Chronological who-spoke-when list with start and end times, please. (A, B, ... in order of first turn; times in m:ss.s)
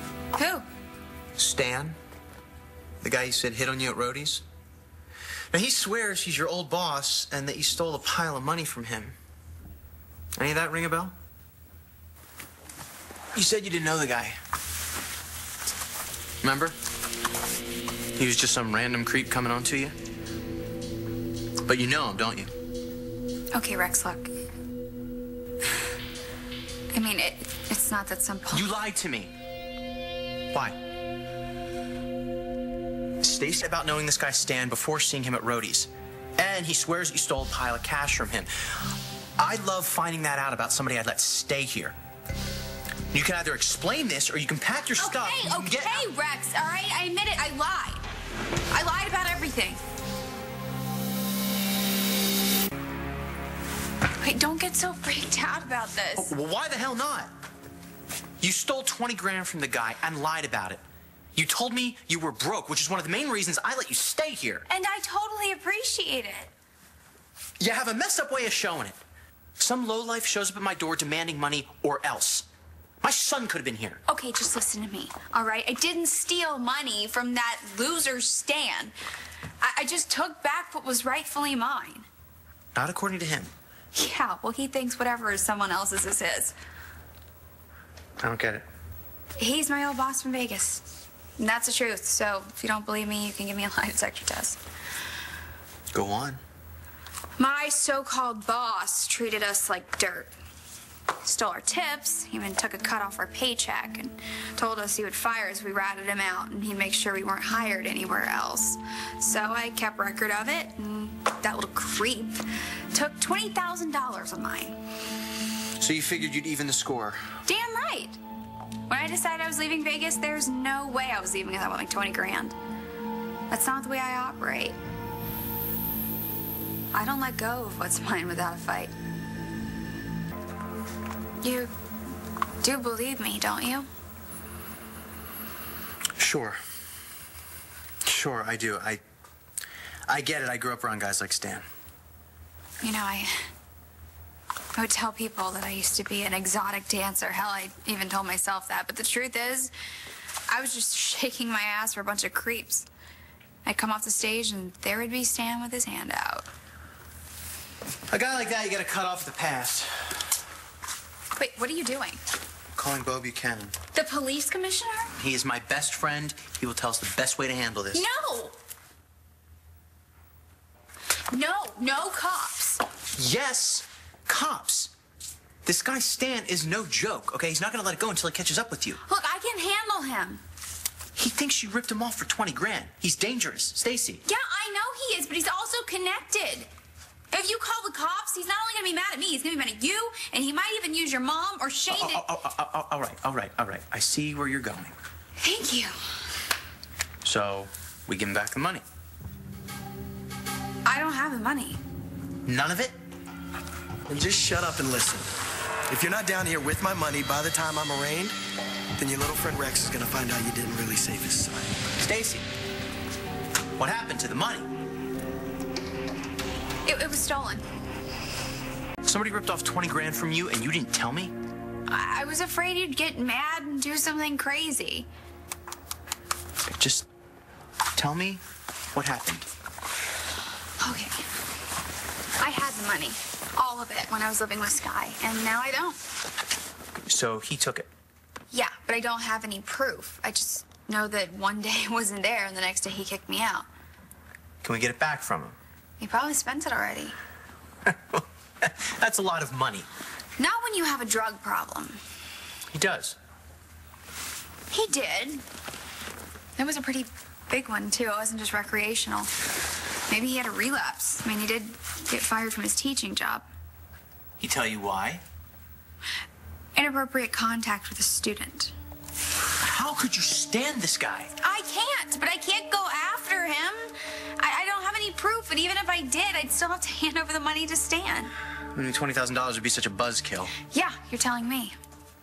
0:00.4-0:00.7 A
0:01.4-0:02.0 B
0:03.0-0:04.4 B
0:05.5-0:09.2 B
0:10.4-0:11.1 B
0:13.3-0:14.4 B
0:16.4-0:16.8 B
0:18.2-0:20.0 B
0:21.7-0:22.5 B
0:23.5-0:24.3 A
0:26.9-0:28.7 A
0:28.5-0:29.3 B
0:30.5-0:30.8 B
0:33.2-0:38.8 B
0:39.4-0:42.0 B
0:43.1-0:46.1 B
0:45.0-0:48.0 A
0:48.7-0:49.8 A
0:54.2-0:56.3 A
0:56.2-0:57.3 B
0:58.4-1:00.8 B
1:01.4-1:04.6 B
1:04.7-1:06.5 A
1:07.6-1:09.0 B
1:09.6-1:12.5 B
1:13.0-1:14.0 B
1:14.1-1:18.9 A
1:19.6-1:22.1 A
1:22.8-1:23.5 B
1:23.9-1:26.5 A
1:28.2-1:28.6 B
1:29.4-1:30.9 A
1:31.4-1:34.6 A
1:35.9-1:36.4 B
1:37.4-1:40.3 A
1:41.2-1:54.8 A
1:55.8-1:57.2 B
1:57.5-1:58.2 A
1:58.9-2:02.6 A
2:03.5-2:04.8 A
2:06.9-2:08.9 A
2:11.4-2:11.7 A
2:12.6-2:13.9 A
2:16.2-2:16.6 B
2:18.0-2:19.0 B
2:20.1-2:21.7 B
2:22.8-2:23.5 A
2:24.8-2:29.7 A
2:30.5-2:32.9 A
2:33.6-2:36.5 A
2:38.1-2:40.2 B
2:41.4-2:42.2 A
2:42.8-2:43.8 B
2:44.0-2:45.1 A
2:45.2-2:48.1 B
2:47.9-2:48.6 A
2:51.3-2:52.8 A
2:53.2-2:54.9 B
2:55.6-2:59.0 B
2:59.1-3:00.4 A
3:01.2-3:04.2 B
3:04.2-3:06.7 A
3:07.3-3:12.2 A
3:11.9-3:14.9 B
3:15.4-3:16.0 A
3:17.2-3:18.8 B
3:20.8-3:21.8 A
3:22.5-3:23.0 B
3:24.1-3:25.3 C
3:25.9-3:28.4 C
3:29.0-3:31.7 C
3:32.0-3:32.5 B
3:33.8-3:34.7 B
3:36.8-3:37.6 A
3:39.0-3:41.3 B
3:41.9-3:45.1 A
3:46.7-3:47.1 B
3:48.0-3:48.4 B
3:48.9-3:49.5 B
3:50.8-3:51.2 A
3:52.4-3:56.0 A
3:57.1-3:57.9 B
3:58.5-4:03.7 A
4:04.6-4:05.6 B
4:06.0-4:07.2 A
4:07.9-4:09.9 B
4:10.4-4:12.0 A
4:12.7-4:13.2 B
4:14.7-4:15.4 A
4:16.6-4:19.3 A
4:20.1-4:23.5 A
4:24.4-4:25.2 B
4:26.8-4:28.7 A
4:29.6-4:31.3 B
4:31.4-4:38.3 A
4:38.7-4:40.5 B
4:40.7-4:41.8 A